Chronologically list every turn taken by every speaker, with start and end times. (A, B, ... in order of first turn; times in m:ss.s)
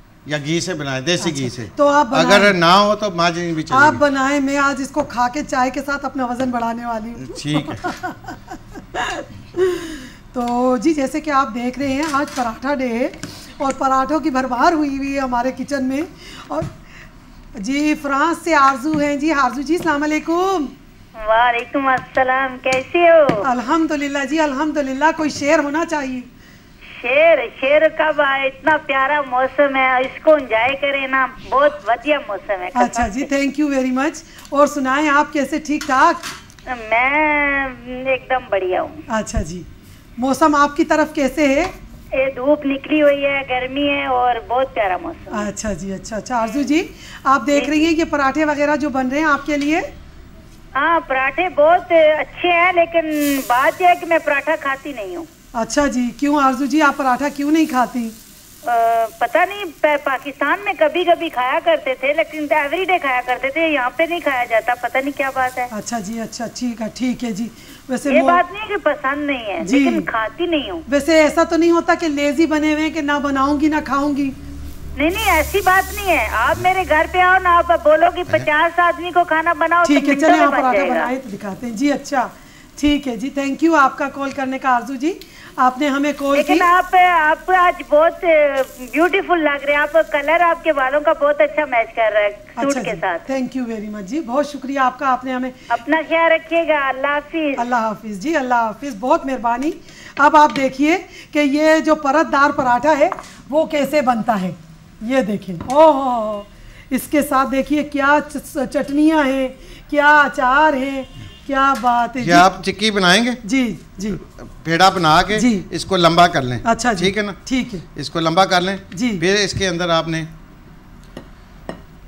0:00.2-0:04.0 A
0:01.2-0:02.6 B
0:03.7-0:16.7 B
0:07.2-0:07.8 A
0:17.6-0:20.7 B
0:21.2-0:23.5 C
0:23.4-0:26.3 B
0:27.0-0:33.3 C
0:32.7-0:36.2 B
0:36.7-0:39.0 C
0:39.1-0:39.6 B
0:40.2-0:41.7 B
0:42.1-0:45.5 C
0:45.3-0:49.9 B
0:47.5-0:47.8 C
0:50.7-0:55.3 C
0:55.5-0:58.1 B
0:58.6-1:05.7 C
1:05.7-1:08.4 B
1:08.1-1:10.8 C
1:09.6-1:10.1 B
1:10.9-1:14.3 B
1:15.0-1:21.1 C
1:19.8-1:26.7 B
1:26.3-1:33.2 C
1:32.6-1:35.6 B
1:35.7-1:37.6 C
1:37.6-1:52.5 B
1:52.2-1:53.4 A
1:53.4-1:54.2 B
1:54.3-1:57.4 A
1:55.3-1:55.7 B
1:56.6-1:57.8 B
1:57.9-2:00.3 A
1:58.9-1:59.2 B